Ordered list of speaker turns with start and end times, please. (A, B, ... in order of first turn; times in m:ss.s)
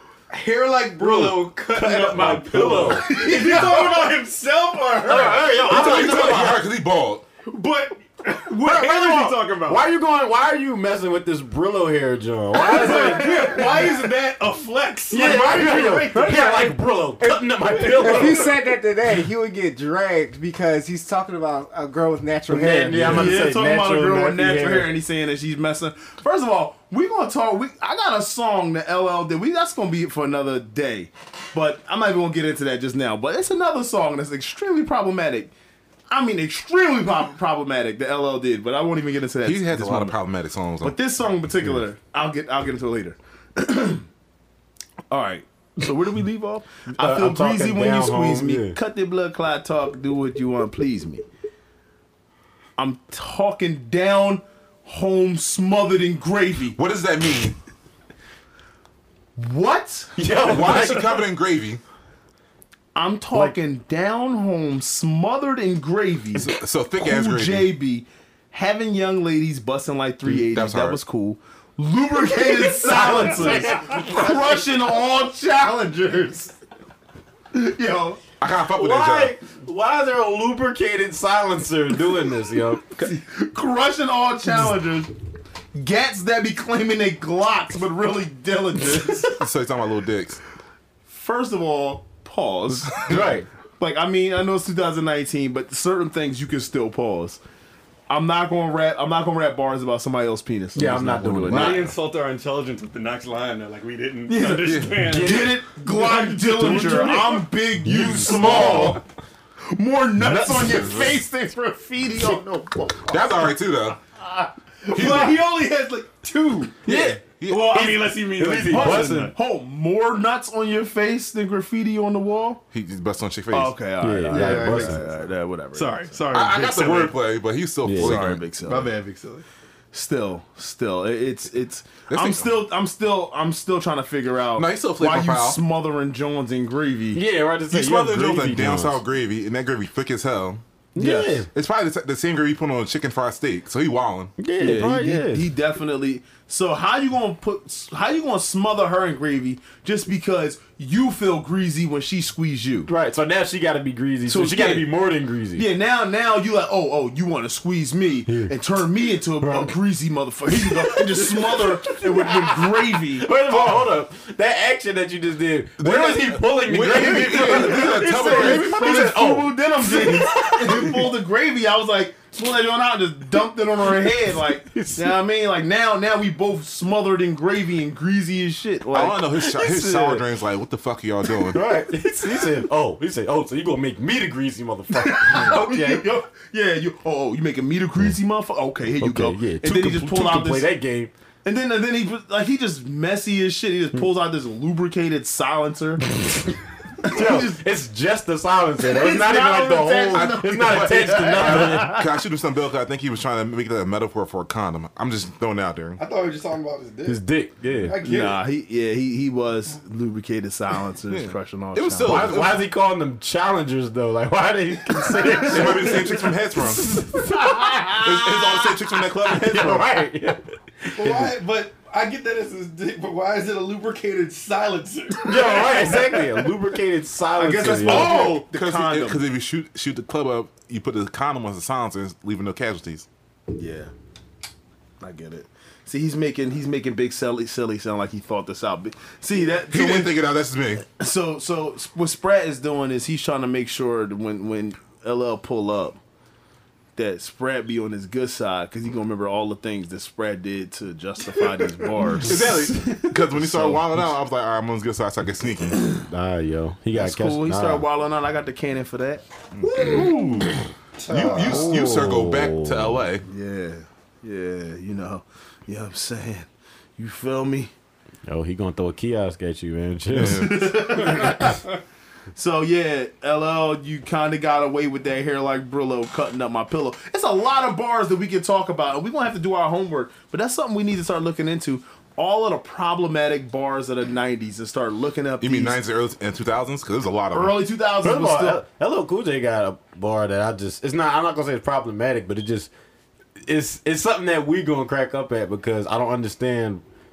0:00.4-0:01.5 A
0:01.0-0:03.2 B
0:01.0-0:06.6 C
0:02.6-0:04.1 D
0:05.0-0:06.6 B
0:05.7-0:07.3 E
0:07.5-0:09.9 C
0:08.6-0:13.6 B
0:12.5-0:16.7 C
0:15.1-0:18.5 B
0:17.2-0:23.4 F
0:22.5-0:24.9 B
0:23.0-0:35.5 D
0:36.1-0:40.2 D
0:39.4-0:41.0 E
0:40.8-0:44.1 D
0:45.1-0:51.3 D
0:46.9-0:48.8 B
0:52.8-0:56.8 D
0:56.7-0:57.6 E
0:59.4-1:00.1 D
1:00.2-1:01.2 B
1:00.4-1:01.8 E
1:03.0-1:16.6 D
1:06.3-1:07.7 E
1:10.3-1:11.0 E
1:12.7-1:14.2 B
1:17.5-1:18.2 D
1:18.4-1:19.4 E
1:18.7-1:22.8 B
1:23.0-1:25.1 D
1:25.8-1:29.4 D
1:29.3-1:30.4 E
1:31.1-1:37.4 D
1:33.0-1:33.5 B
1:38.1-1:41.9 D
1:40.7-1:41.9 B
1:41.5-1:49.0 C
1:44.3-1:49.0 D
1:44.6-1:45.1 E
1:45.1-1:45.6 B
1:46.6-1:49.0 B
1:49.7-1:53.2 D
1:50.2-1:51.2 B
1:53.1-1:54.0 E
1:54.2-1:55.3 D
1:54.9-1:55.4 E
1:54.9-1:59.4 C
1:56.8-1:59.3 B
1:56.9-1:57.9 E
1:58.6-2:02.6 D
2:02.7-2:03.8 E
2:03.5-2:06.2 D
2:04.0-2:05.0 B
2:04.3-2:05.1 A
2:05.7-2:07.2 C
2:06.3-2:08.4 E
2:07.8-2:08.2 B
2:07.9-2:08.9 D
2:08.6-2:09.4 A
2:09.9-2:17.2 D
2:12.1-2:12.6 E
2:14.6-2:15.6 E
2:17.1-2:19.0 B
2:17.7-2:24.3 E
2:21.0-2:21.5 B
2:24.4-2:25.5 B
2:24.6-2:32.9 D
2:32.9-2:35.7 B
2:34.3-2:34.9 D
2:35.6-2:43.7 D
2:38.3-2:38.5 B
2:39.4-2:39.7 B
2:40.6-2:51.1 B
2:45.8-2:49.1 E
2:47.1-3:00.2 D
2:54.7-2:55.1 B
2:58.9-3:01.6 E
3:01.5-3:06.1 B
3:05.0-3:10.7 D
3:09.0-3:11.1 B
3:11.4-3:16.1 D
3:16.2-3:22.0 B
3:17.0-3:17.7 D
3:18.8-3:22.0 D
3:20.1-3:26.0 E
3:26.0-3:27.2 A
3:27.1-3:28.0 B
3:27.8-3:28.4 A
3:28.0-3:32.4 D
3:31.1-3:32.6 E
3:32.1-3:41.3 B
3:35.4-3:36.9 E
3:37.9-3:39.9 E
3:41.0-3:42.0 A
3:41.4-3:42.8 C
3:42.5-3:44.5 A
3:44.4-3:46.4 C
3:45.2-3:48.2 B
3:47.4-3:49.2 D
3:47.6-3:53.1 E
3:53.5-3:53.9 D
3:55.0-4:00.2 D
3:59.7-4:00.8 E
4:00.8-4:06.0 D
4:07.0-4:13.9 D
4:12.2-4:15.8 E
4:15.8-4:16.0 D
4:16.0-4:17.8 B
4:16.9-4:20.4 D
4:19.6-4:20.5 E
4:21.0-4:21.9 A
4:21.1-4:23.2 E
4:21.4-4:23.0 B
4:23.2-4:27.7 D
4:28.3-4:31.6 B
4:30.1-4:30.9 E
4:30.2-4:31.6 D
4:32.3-4:45.8 D
4:45.4-4:47.6 E
4:47.3-4:48.6 D
4:48.0-4:52.7 B
4:53.5-4:56.8 B